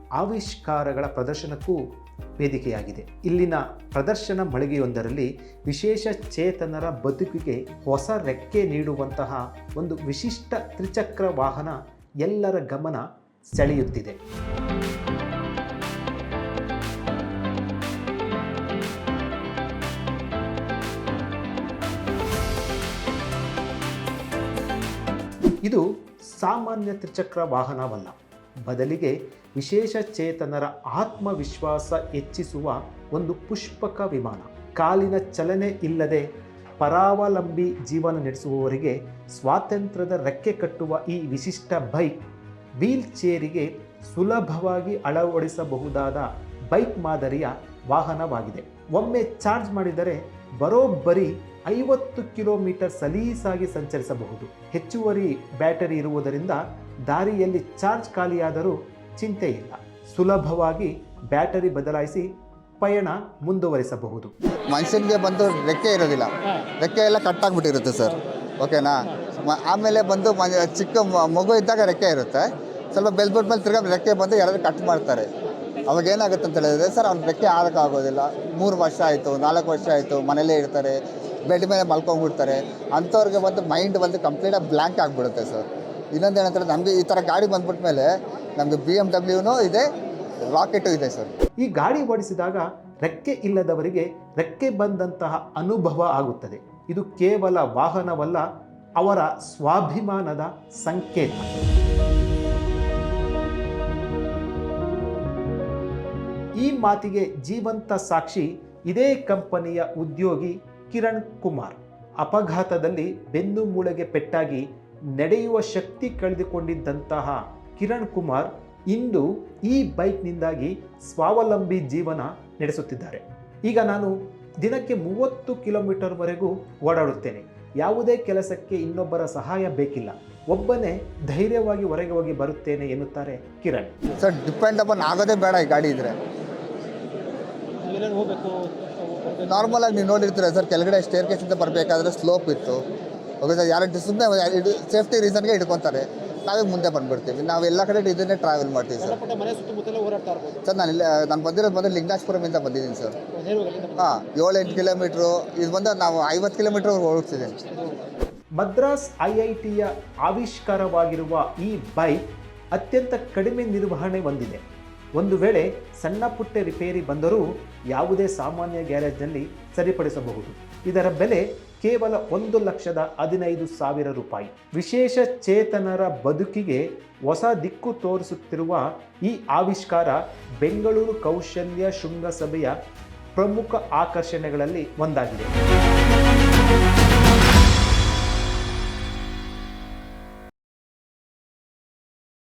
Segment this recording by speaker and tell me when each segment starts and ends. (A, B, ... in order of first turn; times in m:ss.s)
0:00.2-0:01.8 A
0:02.4-0:14.2 A
0:25.6-0:28.1 A
0:28.6-0:36.3 A
0:36.8-0:42.2 A
0:42.8-1:04.3 A
1:04.7-1:15.3 B
1:15.8-1:29.8 B
1:30.5-1:31.3 B
1:31.6-1:38.4 A
1:39.0-1:41.5 A
1:46.6-2:14.0 A
2:14.2-2:16.2 B
2:17.9-2:19.4 C
2:19.4-2:22.8 B
2:23.4-2:29.2 B
2:29.2-2:30.6 C
2:30.6-2:33.2 B
2:33.5-2:33.9 C
2:34.0-2:37.6 B
2:38.6-2:42.2 A
2:42.7-2:44.6 A
2:45.2-3:02.7 A
3:03.4-3:05.5 A